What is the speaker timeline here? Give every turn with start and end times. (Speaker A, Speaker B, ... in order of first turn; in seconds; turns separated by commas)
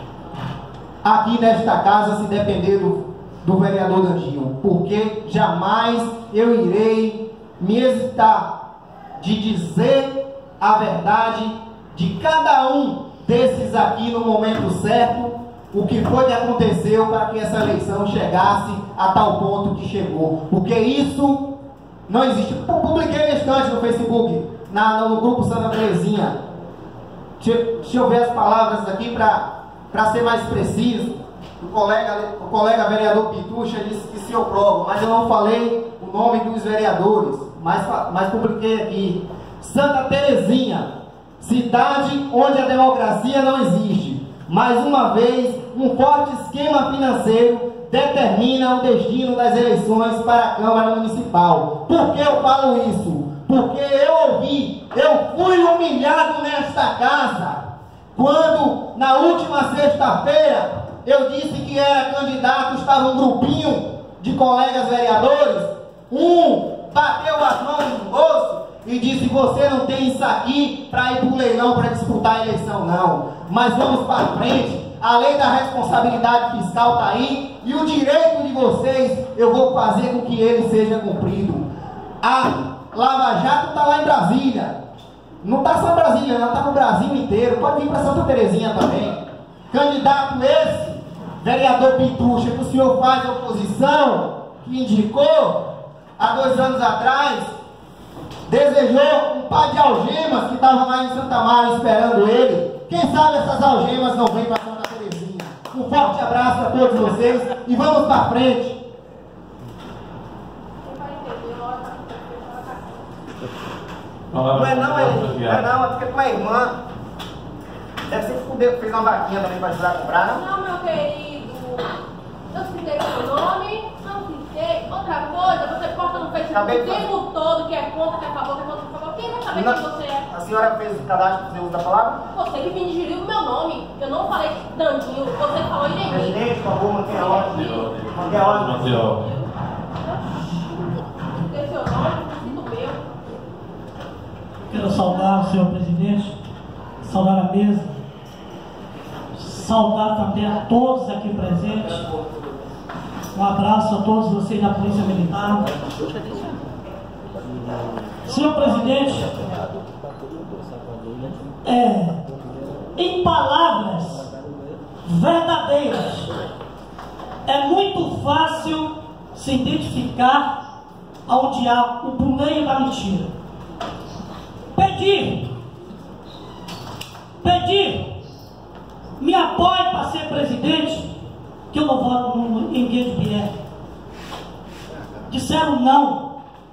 Speaker A: 1.0-8.5, Speaker A: 9.2-21.5, Speaker A: 22.1-26.4, Speaker A: 27.4-40.9, Speaker A: 41.4-57.6, Speaker A: 58.1-81.7, Speaker A: 82.2-84.8, Speaker A: 85.4-95.7, Speaker A: 96.2-97.5, Speaker A: 98.5-108.8, Speaker B: 110.8-113.0, Speaker C: 114.3-115.6, Speaker A: 114.5-116.8, Speaker A: 118.1-120.4, Speaker B: 120.3-121.9, Speaker B: 122.5-130.3, Speaker A: 126.5-127.1, Speaker A: 129.5-132.2, Speaker B: 132.3-136.4, Speaker A: 136.1-139.1, Speaker B: 137.1-137.9, Speaker C: 137.5-139.3, Speaker B: 139.1-139.5, Speaker B: 141.2-143.0, Speaker D: 144.7-146.3, Speaker D: 147.0-148.0, Speaker D: 149.3-152.0, Speaker D: 153.3-155.6, Speaker D: 158.3-159.3, Speaker D: 161.6-162.2, Speaker D: 162.9-164.3, Speaker D: 165.0-166.3, Speaker D: 167.4-170.5, Speaker D: 171.3-173.3, Speaker D: 174.7-175.5, Speaker D: 177.4-178.1, Speaker D: 179.2-181.1, Speaker D: 181.7-183.5, Speaker D: 185.3-186.3